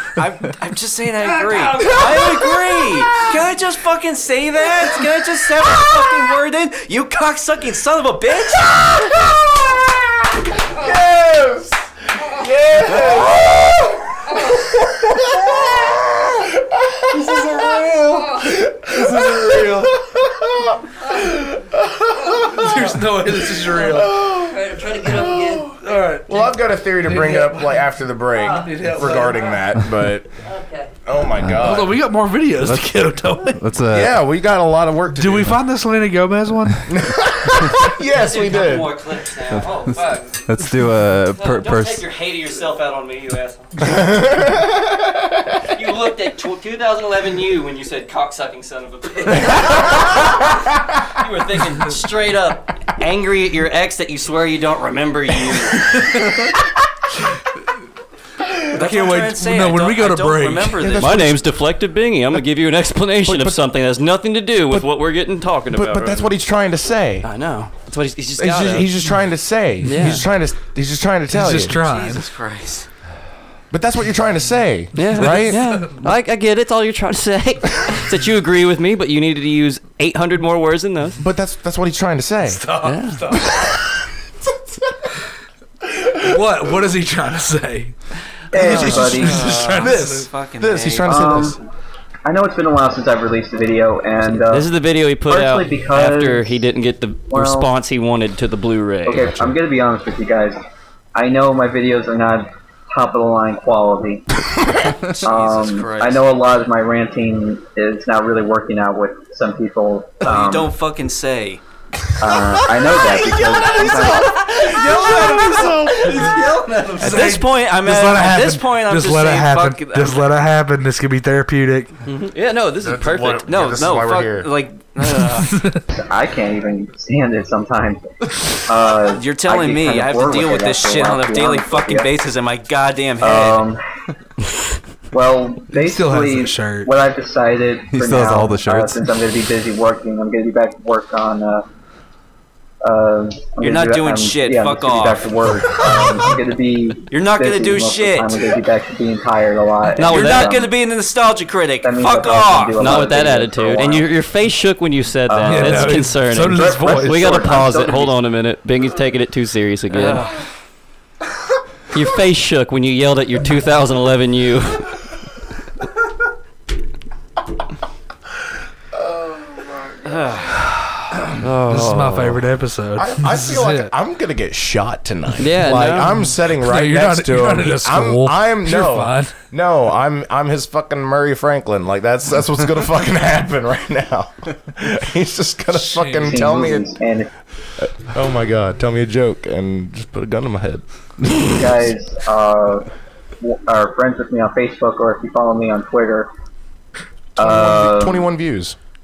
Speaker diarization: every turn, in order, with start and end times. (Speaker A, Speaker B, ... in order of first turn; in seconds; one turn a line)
Speaker A: 0.2-9.0
Speaker B: 1.6-2.0
Speaker C: 8.6-22.9
Speaker B: 18.1-18.5
Speaker D: 19.2-19.9
Speaker D: 22.5-24.2
Speaker C: 23.7-30.3
Speaker B: 24.4-25.7
Speaker D: 25.8-26.5
Speaker D: 27.0-27.8
Speaker D: 28.5-29.4
Speaker B: 30.4-30.9
Speaker C: 31.1-32.0
Speaker E: 31.4-31.8
Speaker D: 31.6-33.6
Speaker E: 32.6-34.1
Speaker C: 33.9-35.6
Speaker D: 35.1-36.9
Speaker C: 36.9-39.0
Speaker B: 38.1-40.4
Speaker E: 40.4-42.0
Speaker B: 41.3-43.9
Speaker C: 43.8-45.5
Speaker B: 45.7-56.0
Speaker D: 58.7-60.9
Speaker A: 58.7-61.3
Speaker C: 60.8-61.4
Speaker B: 61.0-66.3
Speaker C: 63.2-63.6
Speaker C: 65.7-67.3
Speaker B: 67.2-68.9
Speaker C: 68.4-71.8
Speaker B: 69.8-70.2
Speaker D: 71.3-72.2
Speaker A: 71.8-72.9
Speaker C: 73.7-75.8
Speaker B: 74.9-81.2
Speaker C: 81.2-82.6
Speaker D: 82.5-83.6
Speaker B: 82.8-83.3
Speaker C: 83.5-83.8
Speaker D: 86.1-87.9
Speaker F: 88.5-89.5
Speaker C: 88.5-91.6
Speaker D: 88.6-90.3
Speaker A: 88.8-91.4
Speaker F: 91.0-91.6
Speaker F: 92.2-94.7
Speaker B: 94.2-99.4
Speaker F: 95.3-96.6
Speaker F: 97.3-97.7
Speaker F: 99.0-100.6
Speaker F: 101.1-104.2
Speaker A: 105.1-106.3
Speaker F: 105.2-110.7
Speaker A: 110.2-111.6
Speaker F: 112.2-114.5
Speaker C: 112.8-116.5
Speaker D: 116.9-121.9
Speaker A: 117.0-120.3
Speaker B: 122.1-123.4
Speaker C: 122.8-124.5
Speaker A: 123.5-125.6
Speaker D: 125.4-125.8
Speaker F: 125.9-128.1
Speaker F: 128.7-132.1
Speaker A: 129.1-133.6
Speaker F: 133.2-133.8
Speaker F: 135.1-141.6
Speaker D: 135.7-136.9
Speaker E: 137.9-139.1
Speaker F: 142.8-150.7
Speaker A: 143.6-145.3
Speaker A: 147.1-148.5
Speaker B: 149.9-150.6
Speaker A: 150.0-153.1
Speaker F: 151.8-154.1
Speaker B: 152.8-160.2
Speaker F: 155.3-158.2
Speaker D: 155.4-157.6
Speaker A: 159.9-160.4
Speaker B: 161.9-165.0
Speaker C: 169.1-170.0
Speaker A: 170.0-170.6
Speaker B: 171.3-172.4
Speaker D: 171.7-173.9
Speaker C: 172.9-186.9
Speaker B: 175.4-176.2
Speaker D: 176.6-179.3
Speaker D: 185.8-186.4
Speaker F: 186.2-187.3
Speaker C: 187.8-191.8
Speaker F: 191.4-192.9
Speaker F: 193.4-196.3
Speaker F: 197.4-198.3
Speaker C: 197.4-198.8